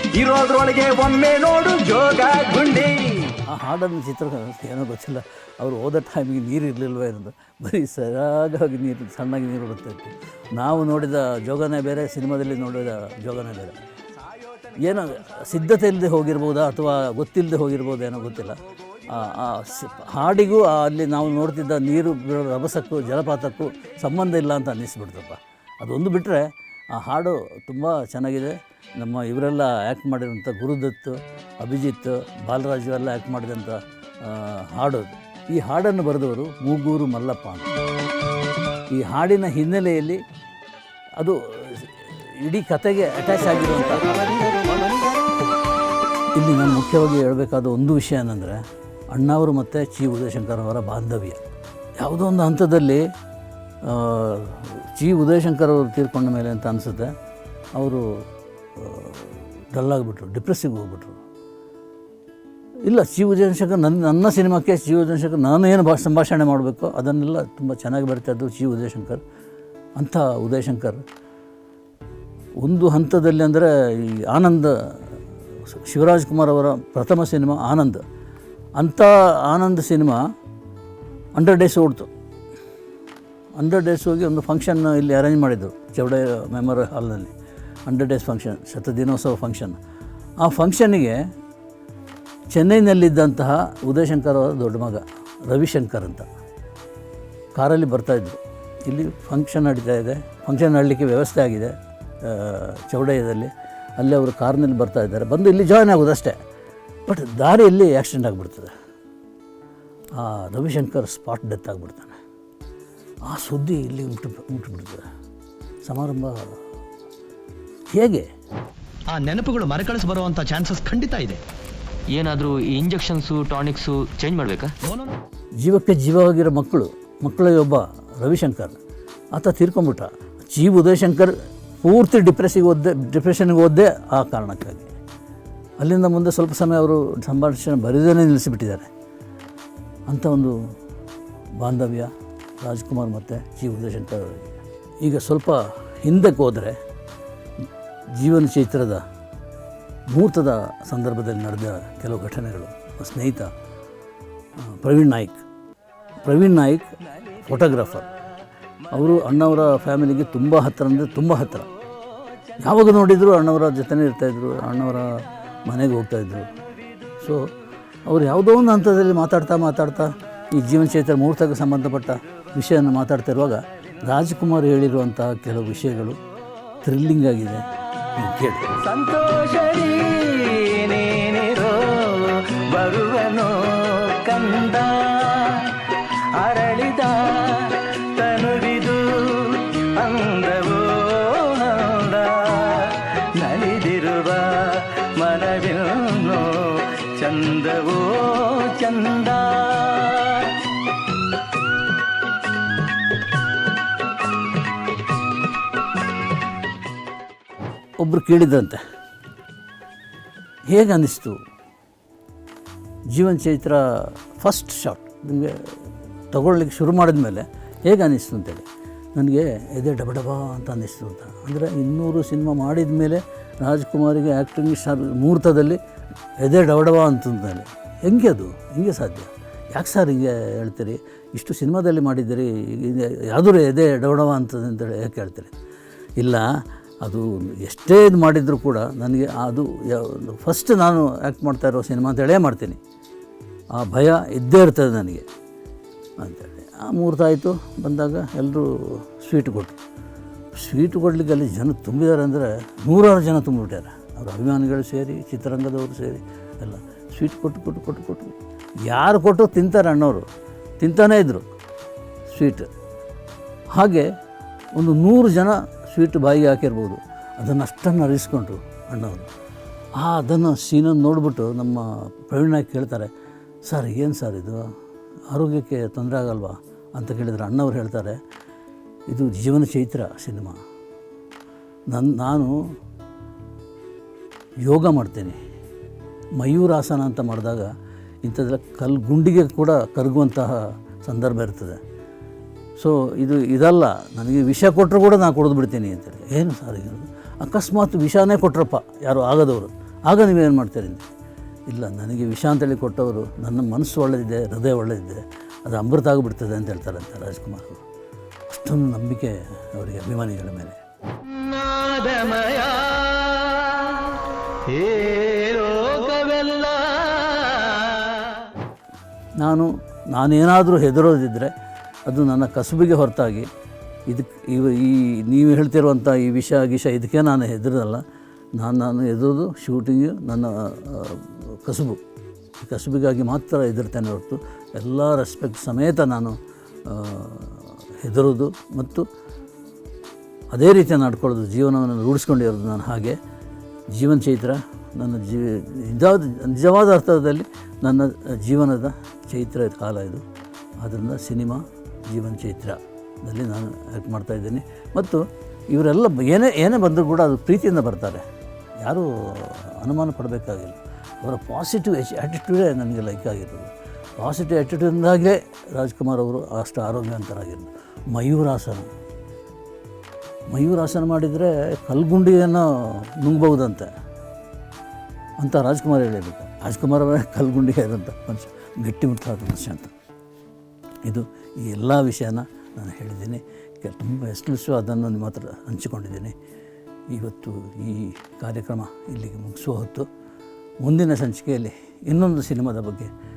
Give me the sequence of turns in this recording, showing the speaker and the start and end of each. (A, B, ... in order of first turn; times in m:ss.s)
0:00.2-0:03.3 A
0:03.5-0:13.8 B
0:14.2-0:15.6 A
0:14.8-0:18.6 B
0:19.1-0:37.7 B
0:38.9-0:40.2 B
0:41.2-0:44.4 B
0:44.4-0:45.1 A
0:46.4-0:48.6 B
0:49.1-0:51.4 B
0:52.0-0:53.0 B
0:53.8-0:57.1 B
0:57.8-0:58.2 B
0:58.8-1:01.2 B
1:02.8-1:09.2 B
1:10.0-1:11.0 B
1:12.6-1:15.0 B
1:15.7-1:18.0 B
1:18.8-1:20.2 B
1:21.4-1:22.1 B
1:23.6-1:27.3 B
1:27.9-1:29.8 B
1:30.4-1:31.2 B
1:32.5-1:36.3 B
1:37.6-1:46.4 B
1:47.1-1:48.7 B
1:50.2-1:52.2 B
1:53.3-1:55.0 B
1:55.9-1:56.4 B
1:57.9-1:58.3 B
1:59.1-2:01.4 C
2:02.1-2:04.7 D
2:05.6-2:08.8 B
2:09.4-2:14.9 B
2:15.8-2:18.9 B
2:20.1-2:20.6 B
2:21.6-2:22.1 B
2:22.6-2:26.8 B
2:28.2-2:29.0 B
2:30.1-2:33.5 B
2:34.7-2:35.4 B
2:36.2-2:36.9 B
2:37.2-2:37.7 A
2:37.4-2:38.1 B
2:38.9-2:41.7 B
2:42.6-2:45.1 B
2:45.7-2:46.5 B
2:47.2-2:47.5 B
2:48.1-2:56.2 B
2:56.8-2:57.6 B
2:58.2-2:58.7 B
2:58.8-3:05.7 A
3:06.4-3:20.6 A
3:28.0-3:28.8 B
3:30.7-3:31.4 B
3:33.1-3:35.8 B
3:36.3-3:45.8 B
3:46.4-3:55.5 B
3:56.2-3:56.4 B
3:57.0-4:02.8 B
4:03.8-4:05.2 B
4:06.2-4:09.8 B
4:10.6-4:18.3 B
4:18.9-4:20.2 B
4:20.8-4:21.4 B
4:22.3-4:22.7 B
4:23.8-4:24.1 B
4:24.8-4:29.3 B
4:30.0-4:33.1 B
4:33.7-4:34.6 B
4:35.3-4:38.2 B
4:39.1-4:40.6 B
4:41.9-4:42.6 B
4:44.6-4:45.4 B
4:46.4-4:47.7 B
4:48.2-4:51.8 B
4:52.8-5:01.1 B
5:01.7-5:07.8 B
5:08.5-5:10.8 B
5:11.3-5:14.2 A
5:14.7-5:18.2 A
5:19.4-5:21.5 B
5:22.1-5:23.5 B
5:24.1-5:28.0 B
5:28.6-5:32.0 B
5:32.6-5:36.4 B
5:36.9-5:39.1 B
5:40.5-5:43.2 B
5:43.9-5:50.2 B
5:50.8-5:58.2 B
5:58.8-6:08.9 B
6:10.5-6:13.9 B
6:15.4-6:19.9 B
6:21.1-6:26.3 B
6:27.1-6:30.1 B
6:30.8-6:33.1 B